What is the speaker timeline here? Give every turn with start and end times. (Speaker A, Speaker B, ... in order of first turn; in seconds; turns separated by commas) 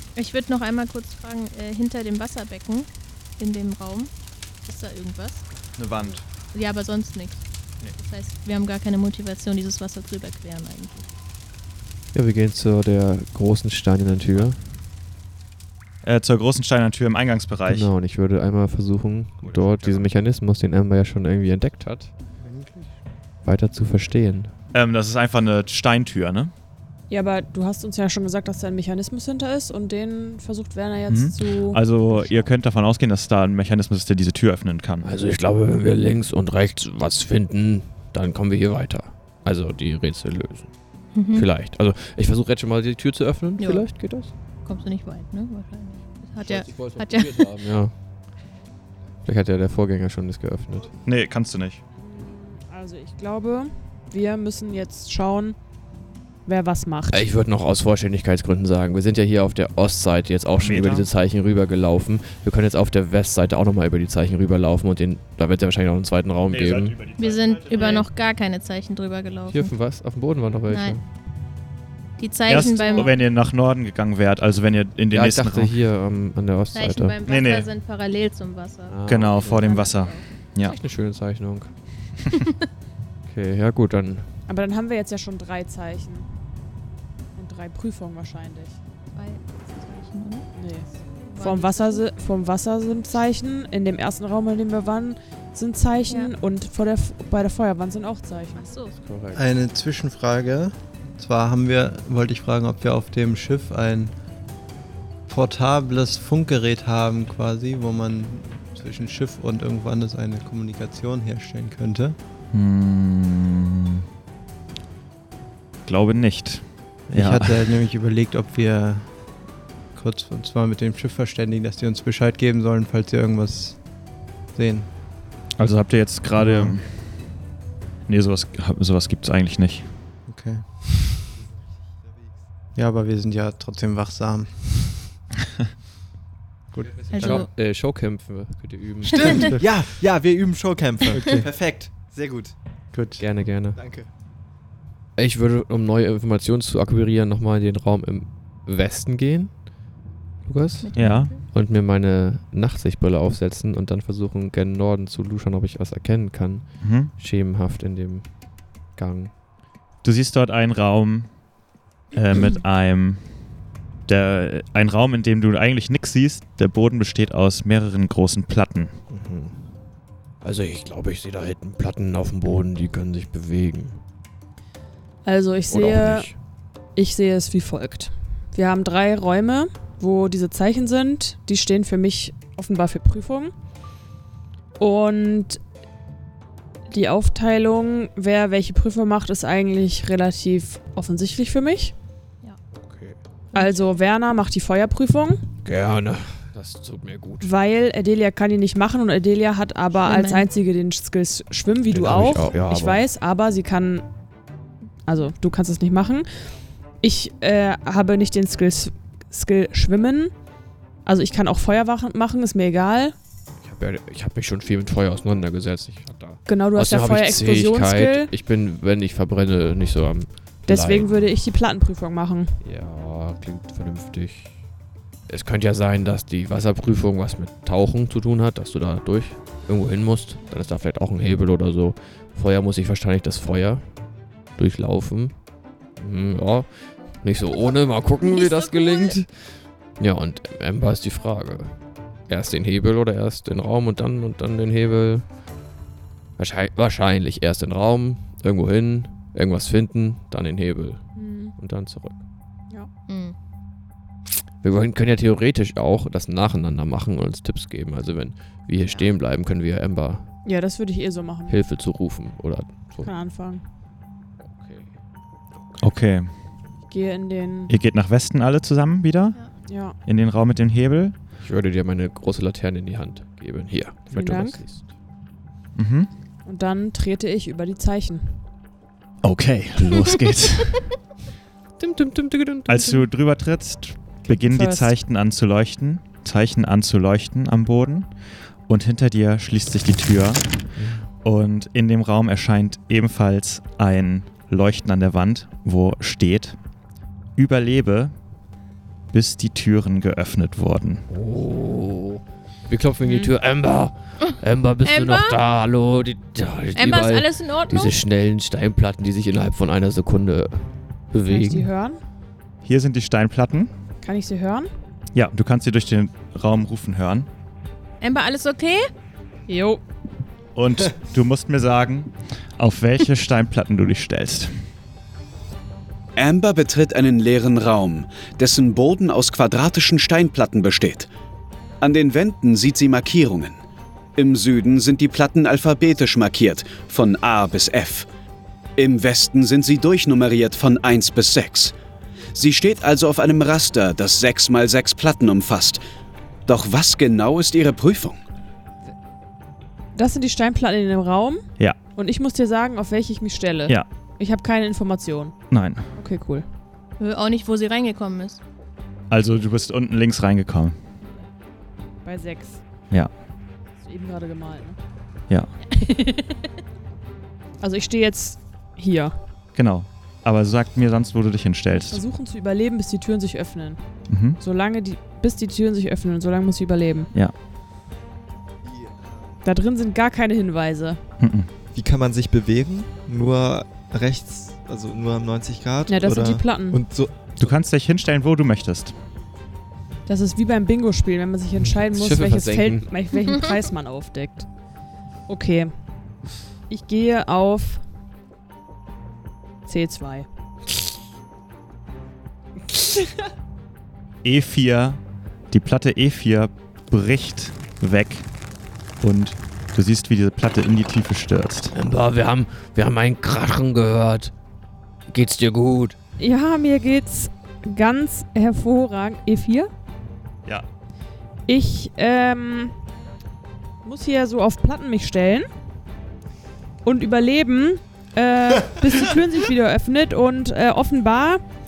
Speaker A: 0.2-4.1, Speaker A: 4.6-5.5, Speaker B: 5.8-6.2, Speaker A: 6.5-11.1, Speaker C: 12.1-14.7, Speaker B: 16.0-17.9, Speaker C: 17.7-22.1, Speaker B: 19.4-20.1, Speaker D: 22.4-22.9, Speaker C: 23.4-24.5, Speaker B: 24.7-26.5, Speaker E: 27.1-31.9, Speaker B: 31.1-35.1, Speaker C: 35.0-40.8, Speaker A: 41.1-41.5, Speaker C: 41.3-44.3, Speaker A: 43.6-47.6, Speaker C: 46.4-48.0, Speaker C: 49.2-51.0, Speaker B: 51.0-51.8, Speaker E: 52.0-55.6, Speaker E: 56.5-57.3, Speaker C: 57.1-67.1, Speaker B: 60.6-61.1, Speaker B: 66.5-67.7, Speaker A: 67.2-69.7, Speaker E: 67.7-68.0, Speaker C: 69.5-71.0, Speaker A: 70.7-71.0, Speaker A: 72.2-73.2, Speaker B: 72.5-75.8, Speaker C: 75.1-77.2, Speaker A: 76.7-80.8, Speaker B: 77.3-77.7, Speaker C: 78.9-79.9, Speaker B: 79.1-80.8, Speaker C: 80.6-82.2, Speaker C: 83.2-84.4, Speaker E: 84.5-86.3, Speaker E: 87.3-88.8, Speaker A: 89.1-90.5, Speaker E: 90.5-98.8, Speaker A: 91.1-92.1, Speaker A: 96.1-96.3, Speaker A: 98.6-99.0, Speaker C: 99.0-99.5, Speaker D: 99.3-104.1, Speaker D: 105.3-112.2, Speaker B: 112.5-114.0, Speaker B: 115.9-117.7, Speaker D: 117.1-119.1, Speaker D: 119.9-123.8, Speaker D: 124.5-124.9, Speaker B: 125.6-127.3, Speaker D: 126.4-126.8, Speaker B: 128.1-129.9, Speaker D: 130.3-130.6, Speaker D: 132.8-134.7, Speaker D: 136.7-137.5, Speaker C: 137.1-139.5, Speaker A: 137.1-137.5, Speaker A: 139.1-139.5, Speaker F: 139.2-142.6, Speaker D: 139.3-139.9, Speaker D: 141.1-141.5, Speaker D: 142.9-143.2, Speaker C: 143.2-143.8, Speaker F: 143.8-144.1, Speaker C: 145.2-149.7, Speaker C: 150.4-159.3, Speaker A: 150.8-151.5, Speaker B: 151.0-151.3, Speaker B: 156.8-157.1, Speaker B: 160.0-161.4, Speaker B: 162.1-163.2, Speaker B: 164.1-168.9, Speaker C: 169.1-169.6, Speaker C: 170.4-174.0, Speaker E: 175.2-176.4, Speaker C: 175.7-176.4, Speaker E: 177.0-183.5, Speaker E: 184.8-185.6, Speaker E: 186.9-191.9, Speaker C: 192.8-193.2, Speaker A: 193.5-194.0, Speaker E: 193.5-195.5, Speaker C: 195.6-197.5, Speaker E: 197.4-204.0, Speaker A: 200.1-200.5, Speaker C: 201.9-203.1, Speaker E: 205.1-206.5, Speaker E: 207.0-210.3, Speaker E: 211.1-213.2, Speaker C: 213.6-221.1, Speaker E: 216.5-218.3, Speaker E: 220.7-222.6, Speaker C: 222.6-224.6, Speaker C: 225.3-233.9, Speaker C: 234.6-235.3, Speaker C: 236.0-245.3, Speaker A: 238.2-239.2, Speaker C: 246.4-252.2, Speaker E: 251.2-251.6, Speaker A: 253.1-253.4, Speaker C: 254.6-260.3, Speaker E: 260.4-261.6, Speaker C: 261.5-263.1, Speaker E: 263.0-263.6, Speaker C: 264.4-265.0, Speaker B: 265.8-266.3, Speaker E: 266.9-267.7, Speaker B: 267.7-269.4, Speaker E: 269.7-269.9, Speaker B: 270.1-271.1, Speaker C: 271.4-274.9, Speaker E: 274.1-274.6, Speaker B: 275.8-276.1, Speaker E: 276.4-278.4, Speaker B: 279.2-280.9, Speaker C: 281.8-283.1, Speaker B: 282.7-288.1, Speaker E: 284.4-284.9, Speaker B: 288.7-290.5, Speaker C: 290.8-291.1, Speaker B: 291.2-296.6, Speaker B: 297.4-298.1, Speaker B: 299.1-301.1, Speaker C: 301.1-311.7, Speaker A: 303.1-303.3, Speaker A: 304.2-305.4, Speaker A: 306.8-308.0, Speaker E: 311.3-312.0, Speaker B: 312.6-313.7, Speaker E: 314.0-314.7, Speaker B: 315.1-317.3, Speaker A: 318.0-318.9, Speaker E: 319.5-319.8, Speaker B: 320.6-324.5, Speaker G: 326.2-331.1, Speaker G: 331.8-333.6, Speaker G: 334.2-338.1, Speaker G: 338.8-341.7, Speaker G: 342.3-345.8, Speaker G: 346.5-348.2, Speaker E: 350.0-355.4, Speaker B: 355.5-355.9, Speaker E: 356.0-356.4, Speaker A: 357.0-358.4, Speaker B: 359.1-360.8, Speaker E: 362.1-362.6, Speaker E: 363.8-364.8, Speaker A: 365.7-366.4, Speaker E: 367.6-369.1, Speaker B: 369.6-372.0, Speaker E: 371.9-373.8, Speaker B: 374.1-374.4, Speaker E: 374.4-377.1, Speaker E: 379.4-381.0, Speaker B: 381.2-381.5, Speaker F: 381.7-387.4, Speaker E: 385.9-386.8, Speaker B: 387.4-388.9, Speaker E: 390.1-394.5, Speaker C: 391.6-392.9, Speaker E: 395.3-395.7, Speaker E: 396.7-397.8, Speaker E: 399.7-400.3, Speaker B: 404.2-405.0, Speaker B: 405.5-408.3, Speaker B: 409.0-411.7, Speaker C: 411.7-414.3, Speaker C: 415.1-416.0, Speaker E: 416.2-419.7, Speaker E: 421.5-422.7, Speaker E: 423.8-425.5, Speaker E: 426.9-431.4